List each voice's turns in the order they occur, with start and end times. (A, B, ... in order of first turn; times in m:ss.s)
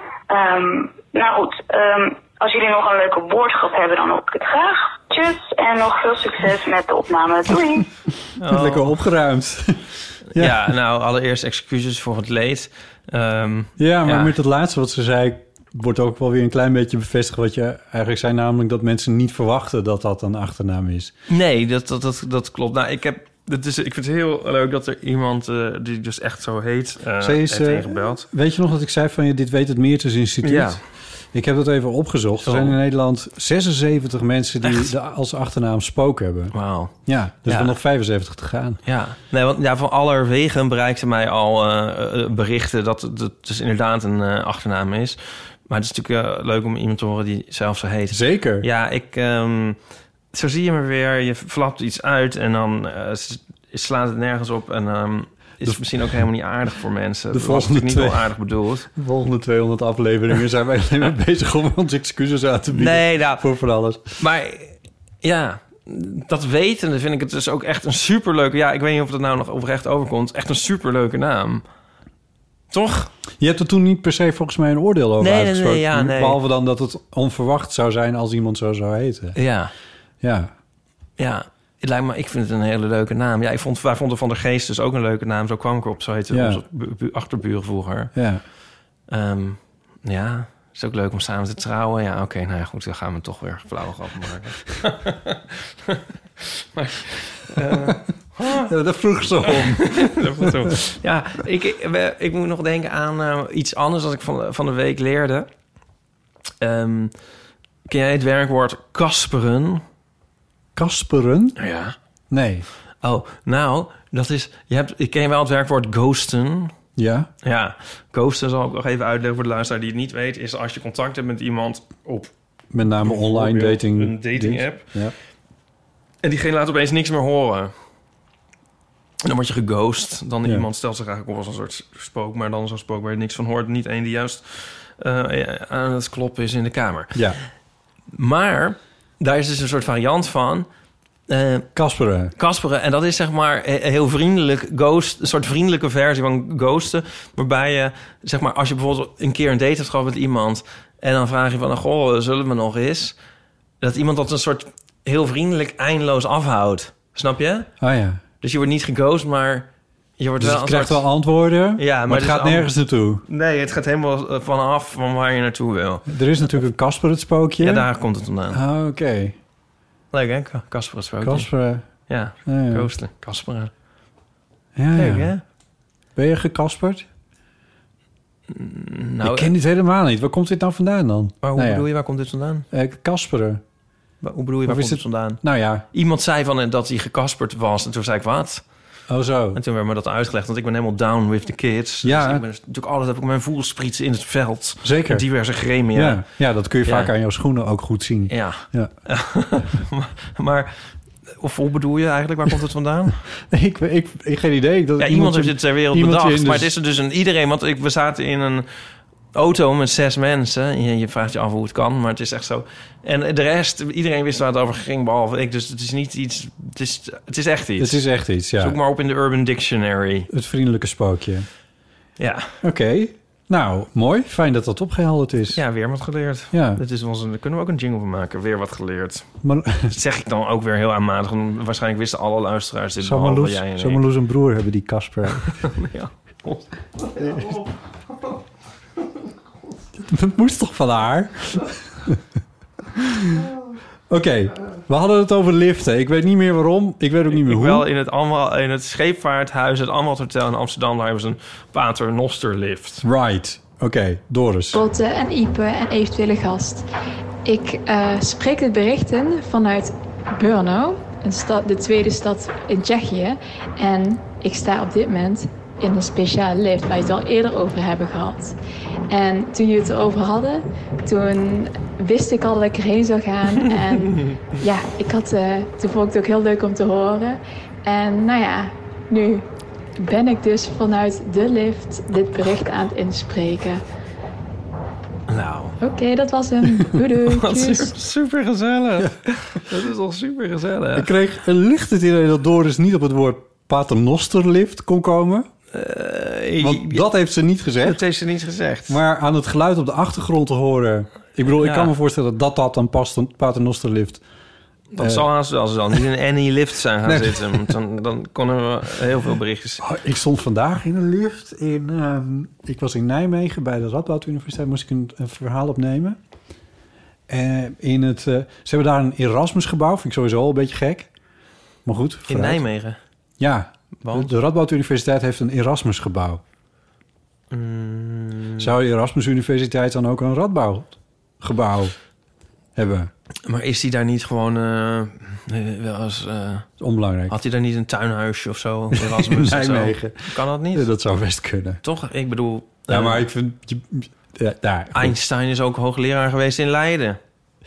0:00.3-0:07.9 A
0:08.4-0:08.9 B
0:08.5-0:10.6 C
0:10.3-0:14.3 B
0:13.8-0:21.1 C
0:21.3-0:28.3 B
0:27.2-0:38.8 C
0:30.4-0:30.8 B
0:32.4-0:32.8 B
0:34.6-0:34.9 B
0:36.5-0:37.7 B
0:38.8-0:49.8 B
0:48.1-0:48.6 C
0:50.3-0:58.9 B
0:57.3-0:58.3 C
0:58.9-1:04.2 C
1:02.7-1:03.4 B
1:04.2-1:11.6 B
1:12.7-1:13.1 B
1:13.4-1:19.4 C
1:15.2-1:16.4 B
1:19.3-1:19.7 B
1:20.2-1:20.5 C
1:21.2-1:28.1 B
1:26.3-1:26.6 C
1:28.1-1:28.4 C
1:29.1-1:38.7 B
1:38.5-1:40.7 C
1:39.4-1:45.5 B
1:46.6-1:47.2 B
1:47.9-1:49.8 B
1:50.7-1:51.6 C
1:51.6-1:52.0 B
1:52.3-1:52.7 C
1:53.0-1:56.7 B
1:57.0-1:57.3 C
1:57.4-2:02.3 B
2:02.7-2:05.1 C
2:03.0-2:04.9 B
2:06.2-2:07.7 B
2:09.2-2:17.2 B
2:17.1-2:17.4 C
2:18.1-2:20.7 B
2:21.3-2:21.7 B
2:21.7-2:22.3 C
2:22.4-2:33.2 B
2:33.8-2:37.7 B
2:37.8-2:38.2 C
2:38.4-2:39.7 B
2:40.2-2:41.0 B
2:40.4-2:43.2 C
2:41.8-2:42.7 B
2:43.2-2:46.5 B
2:46.1-2:47.9 C
2:47.6-2:48.6 B
2:48.5-2:49.4 C
2:50.1-2:51.5 B
2:51.2-2:51.8 C
2:52.1-2:53.7 B
2:52.4-2:52.9 C
2:54.8-2:55.3 C
2:54.9-2:55.4 B
2:56.2-2:57.1 C
2:58.5-2:59.5 B
2:59.2-3:01.9 C
3:01.4-3:02.6 B
3:02.7-3:03.6 C
3:04.2-3:05.4 B
3:04.6-3:05.8 C
3:05.9-3:08.6 B
3:09.1-3:09.6 C
3:09.5-3:16.2 B
3:12.0-3:12.4 C
3:14.8-3:15.3 C
3:15.9-3:18.9 C
3:16.8-3:17.1 B
3:18.3-3:23.2 B
3:23.5-3:26.7 C
3:25.0-3:28.7 B
3:29.3-3:38.0 B
3:37.8-3:38.8 C
3:38.6-3:40.3 B
3:40.3-3:41.5 C
3:42.2-3:42.6 B
3:42.6-3:45.6 C
3:45.5-3:49.3 B
3:46.5-3:46.8 C
3:49.4-3:49.9 C
3:49.8-3:54.0 B
3:53.0-3:55.7 C
3:55.5-3:57.6 B
3:57.2-3:57.6 C
4:00.0-4:02.2 C
4:03.0-4:03.4 C
4:04.1-4:07.9 C
4:07.3-4:13.0 B
4:13.0-4:14.8 C
4:14.7-4:16.9 D
4:17.4-4:28.6 D
4:29.1-4:39.4 D
4:40.0-4:43.8 D
4:45.3-4:45.8 B
4:45.8-4:47.9 D
4:47.2-4:51.1 B
4:51.0-4:55.5 C
4:55.7-4:57.0 B
4:56.6-4:58.0 C
4:57.8-4:59.0 B
4:58.9-5:04.2 C
5:01.6-5:01.9 B
5:04.9-5:09.8 B
5:05.0-5:05.3 C
5:07.0-5:07.7 C
5:09.8-5:16.2 C
5:17.3-5:21.1 C
5:21.8-5:22.6 C
5:22.3-5:23.0 B
5:23.4-5:26.4 C
5:24.0-5:24.3 B
5:27.5-5:28.7 B
5:28.6-5:31.9 C
5:32.7-5:33.1 C
5:33.4-5:36.7 B
5:36.8-5:37.4 C
5:37.3-5:40.9 B
5:38.9-5:41.8 C
5:41.8-5:43.3 B
5:42.9-5:45.2 C
5:44.9-5:47.2 B